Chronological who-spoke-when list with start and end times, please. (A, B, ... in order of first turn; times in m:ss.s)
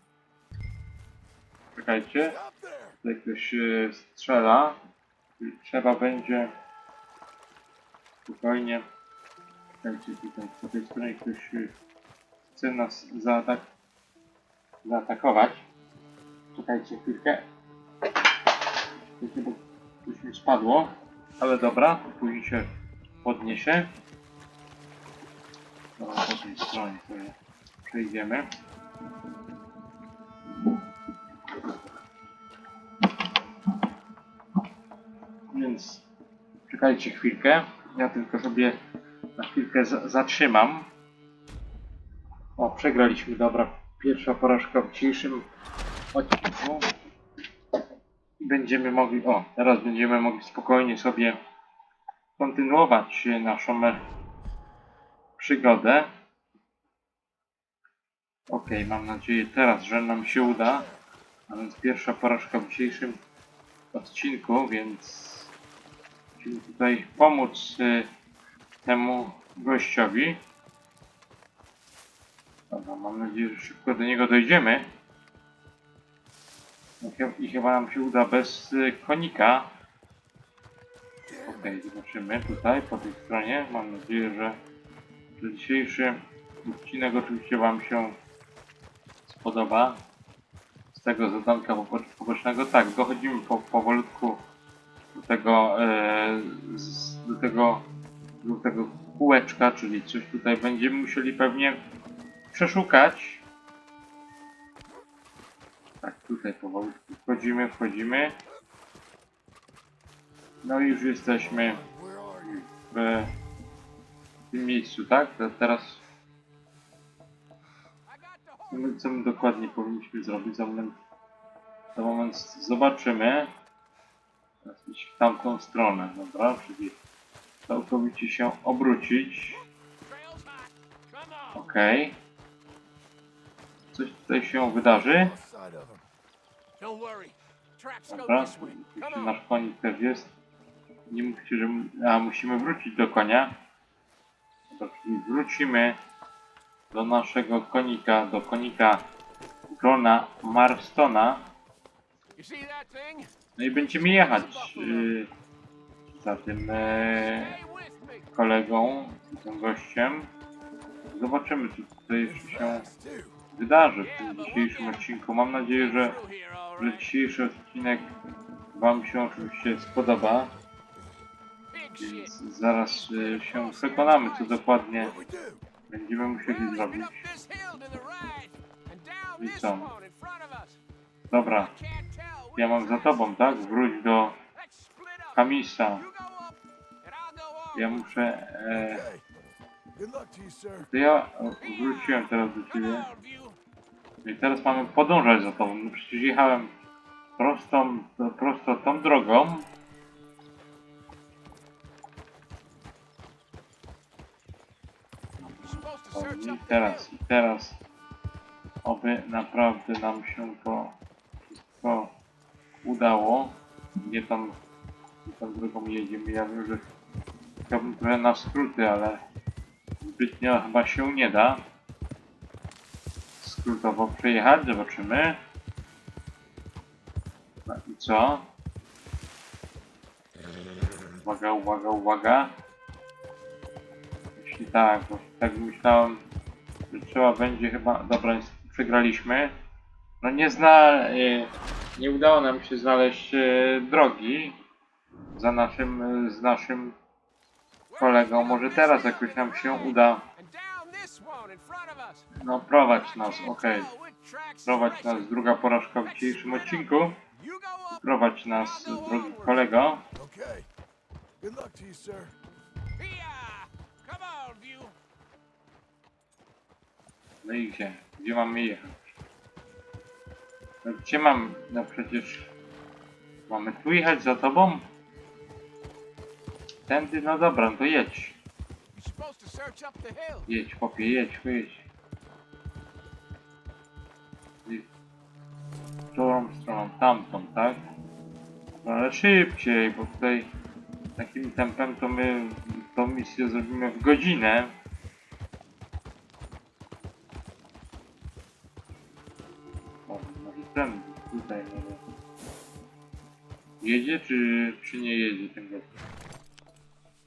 0:01.8-0:02.4 A
0:02.3-0:03.0 B
0:03.0-0:04.8 A
0:05.4-0:06.5 A
0:08.2-0:08.8 A
0:09.8-0:11.7 A
0:12.5-0:13.6 A
0:14.8-0:15.6 A
0:16.5-0:17.4 A
0:19.2-0:22.7 A
0:23.2-0:23.9 A
0:26.0-0:27.3 A
0:27.9-0:28.4 A
0:35.5-0:36.0 A
0:36.7-0:38.7 A
0:39.4-0:40.9 A
0:42.6-0:45.4 A
0:46.1-0:46.9 A
0:48.4-0:51.4 A
0:52.4-0:54.0 A
0:55.4-0:56.1 A
0:58.5-1:00.9 A
1:01.5-1:03.2 A
1:03.9-1:05.5 A
1:06.4-1:08.1 A
1:08.8-1:10.4 A
1:12.7-1:14.9 A
1:17.0-1:19.7 A
1:21.3-1:21.6 B
1:21.4-1:24.6 A
1:25.4-1:28.2 A
1:29.3-1:30.0 A
1:30.9-1:34.4 A
1:35.1-1:37.8 A
1:38.4-1:41.8 A
1:42.5-1:43.4 A
1:46.0-1:48.3 A
1:50.6-1:51.8 A
1:51.5-1:52.6 B
1:52.8-1:53.3 A
1:54.5-1:56.0 A
1:58.1-1:59.1 C
1:58.7-2:01.0 A
2:01.9-2:03.5 A
2:04.6-2:07.0 A
2:07.7-2:09.6 A
2:10.0-2:11.7 C
2:11.5-2:12.1 A
2:13.9-2:15.3 A
2:14.9-2:16.0 B
2:16.8-2:19.4 C
2:18.1-2:20.3 A
2:21.1-2:23.5 A
2:24.7-2:26.0 A
2:26.9-2:29.0 A
2:29.7-2:31.5 A
2:32.4-2:35.2 C
2:33.6-2:35.3 A
2:36.1-2:37.6 A
2:37.3-2:38.3 C
2:38.3-2:40.3 A
2:41.1-2:42.9 A
2:42.2-2:43.4 B
2:43.5-2:46.2 A
2:44.0-2:45.1 C
2:45.7-2:47.1 C
2:46.8-2:48.1 A
2:48.7-2:50.5 A
2:51.7-2:54.7 C
2:52.0-2:55.1 A
2:55.0-2:55.6 B
2:55.9-2:57.2 A
2:56.4-3:00.8 C
2:59.4-2:59.9 A
3:01.3-3:01.7 A
3:01.5-3:03.9 C
3:02.5-3:04.4 A
3:04.5-3:08.2 C
3:05.3-3:06.0 A
3:07.7-3:09.0 A
3:08.7-3:09.3 B
3:09.9-3:10.9 B
3:10.9-3:13.1 A
3:11.6-3:13.6 C
3:14.2-3:16.7 A
3:17.4-3:19.6 A
3:25.4-3:27.8 A
3:25.6-3:27.1 C
3:28.8-3:31.0 A
3:31.5-3:32.1 A
3:32.8-3:34.5 A
3:35.2-3:36.8 A
3:37.7-3:39.2 A
3:40.0-3:41.6 A
3:43.4-3:45.4 A
3:47.6-3:48.4 A
3:51.2-3:52.5 A
3:54.4-3:56.2 A
3:56.9-3:59.5 A
4:00.2-4:04.6 A
4:05.4-4:06.9 A
4:07.9-4:12.3 C
4:08.0-4:10.2 A
4:12.4-4:13.9 A
4:13.0-4:19.6 C
4:14.6-4:17.2 A
4:17.9-4:20.0 A
4:20.1-4:20.7 B
4:21.4-4:22.3 B
4:23.0-4:24.9 C
4:27.4-4:29.1 A
4:30.8-4:32.5 A
4:33.5-4:34.8 A
4:36.9-4:38.4 A
4:38.9-4:40.5 C
4:40.5-4:41.8 A
4:46.1-4:47.8 A
4:48.8-4:50.5 A
4:51.2-4:54.7 A
5:00.1-5:02.0 A
5:03.8-5:05.9 A